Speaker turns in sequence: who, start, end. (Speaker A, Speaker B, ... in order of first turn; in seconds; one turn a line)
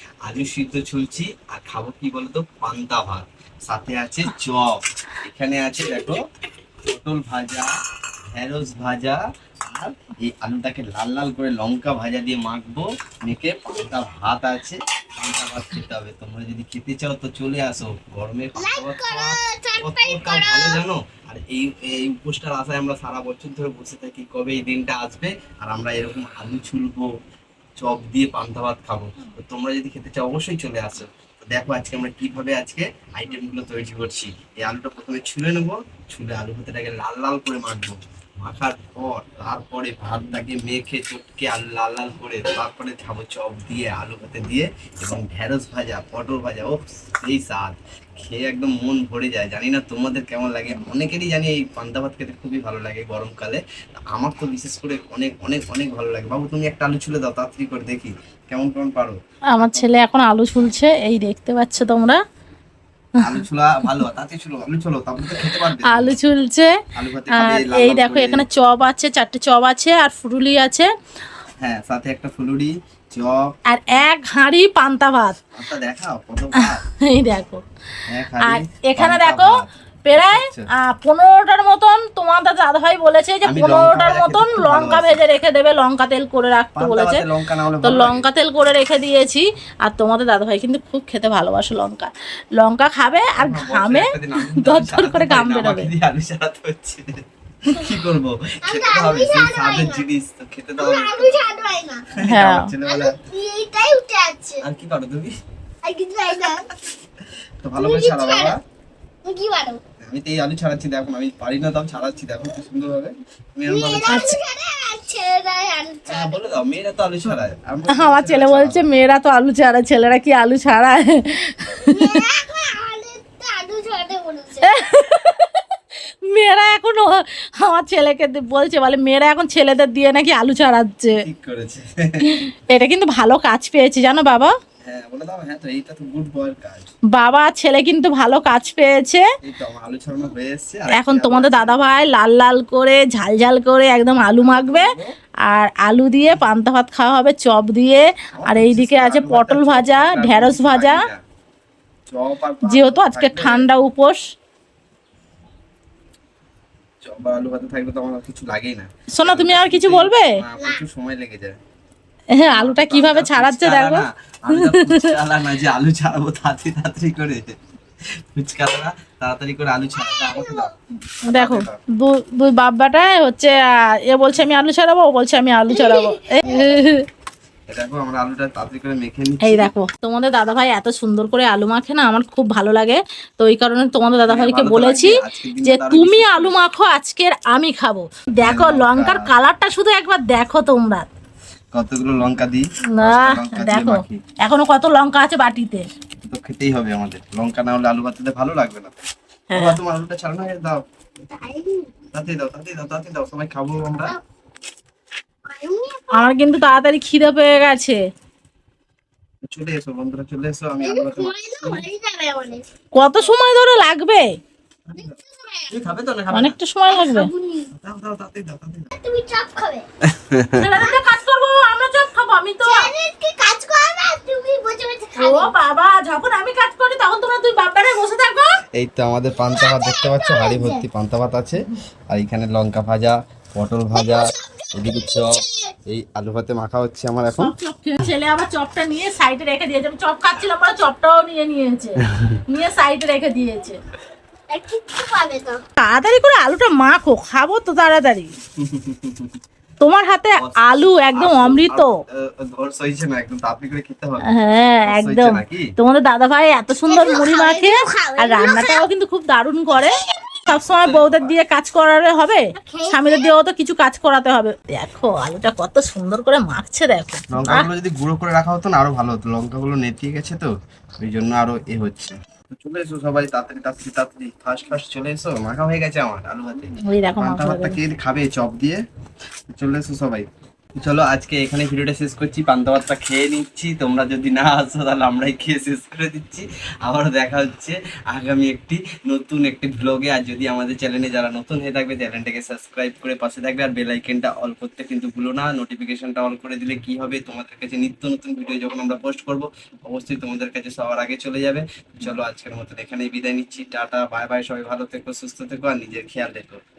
Speaker A: 0.2-6.2
Speaker A: 6.8-7.7
Speaker A: 8.3-9.2
Speaker A: 9.7-27.1
Speaker B: 18.6-20.8
Speaker A: 27.8-59.9
Speaker C: 59.5-62.2
Speaker A: 63.2-66.1
Speaker C: 63.3-64.0
Speaker C: 65.2-66.7
Speaker A: 66.9-68.5
Speaker C: 67.3-70.9
Speaker A: 71.6-74.0
Speaker C: 73.7-75.4
Speaker A: 75.5-76.8
Speaker C: 76.6-77.6
Speaker A: 78.1-80.7
Speaker C: 78.4-79.5
Speaker C: 80.0-87.2
Speaker A: 83.4-85.2
Speaker A: 86.8-88.3
Speaker C: 87.8-95.9
Speaker A: 93.3-97.1
Speaker A: 97.6-101.4
Speaker B: 98.6-100.0
Speaker B: 100.8-102.1
Speaker A: 102.2-103.1
Speaker C: 102.2-102.7
Speaker B: 102.8-104.6
Speaker A: 104.6-105.3
Speaker B: 105.8-106.7
Speaker A: 106.3-106.6
Speaker A: 107.6-108.6
Speaker B: 107.8-108.5
Speaker B: 109.2-109.8
Speaker A: 110.0-114.2
Speaker B: 113.7-116.5
Speaker C: 114.1-114.4
Speaker A: 116.1-118.9
Speaker C: 117.9-122.2
Speaker B: 121.9-124.7
Speaker C: 124.6-125.6
Speaker C: 126.3-131.2
Speaker A: 131.2-132.3
Speaker C: 132.2-134.5
Speaker A: 134.8-136.9
Speaker C: 137.1-139.2
Speaker A: 139.4-141.8
Speaker C: 140.9-144.9
Speaker A: 144.4-145.1
Speaker C: 145.4-151.0
Speaker A: 148.4-151.2
Speaker A: 152.1-153.7
Speaker C: 152.6-154.2
Speaker A: 157.0-161.6
Speaker C: 159.1-160.3
Speaker B: 160.6-160.8
Speaker C: 162.3-165.1
Speaker A: 162.5-167.6
Speaker A: 168.3-170.7
Speaker B: 169.9-170.7
Speaker C: 171.3-177.1
Speaker A: 171.3-171.8
Speaker B: 175.7-176.8
Speaker A: 177.7-179.7
Speaker C: 179.4-191.1
Speaker A: 184.3-186.6
Speaker A: 188.4-189.3
Speaker A: 191.7-194.2
Speaker C: 193.0-195.9
Speaker A: 196.2-198.9
Speaker C: 199.5-199.8
Speaker A: 199.5-200.8
Speaker B: 201.3-201.9
Speaker A: 202.1-204.1
Speaker B: 205.4-206.4
Speaker C: 206.1-208.0
Speaker A: 209.4-211.8
Speaker B: 210.8-212.6
Speaker C: 212.9-214.3
Speaker B: 214.9-215.8
Speaker A: 215.7-216.6
Speaker C: 216.3-217.3
Speaker B: 216.8-217.7
Speaker A: 217.7-218.9
Speaker B: 218.9-219.8
Speaker A: 220.1-220.7
Speaker C: 220.6-222.9
Speaker B: 222.6-225.5
Speaker C: 225.2-228.6
Speaker A: 228.7-237.5
Speaker B: 229.5-230.8
Speaker B: 233.9-235.7
Speaker C: 237.4-243.8
Speaker B: 244.5-245.6
Speaker C: 245.8-248.3
Speaker A: 248.6-249.4
Speaker C: 249.8-251.9
Speaker A: 250.4-254.3
Speaker C: 254.3-259.9
Speaker A: 254.9-255.7
Speaker B: 256.9-258.9
Speaker A: 260.4-261.3
Speaker C: 260.5-267.7
Speaker B: 262.5-263.3
Speaker A: 267.3-278.8
Speaker C: 276.8-277.8
Speaker A: 279.5-306.6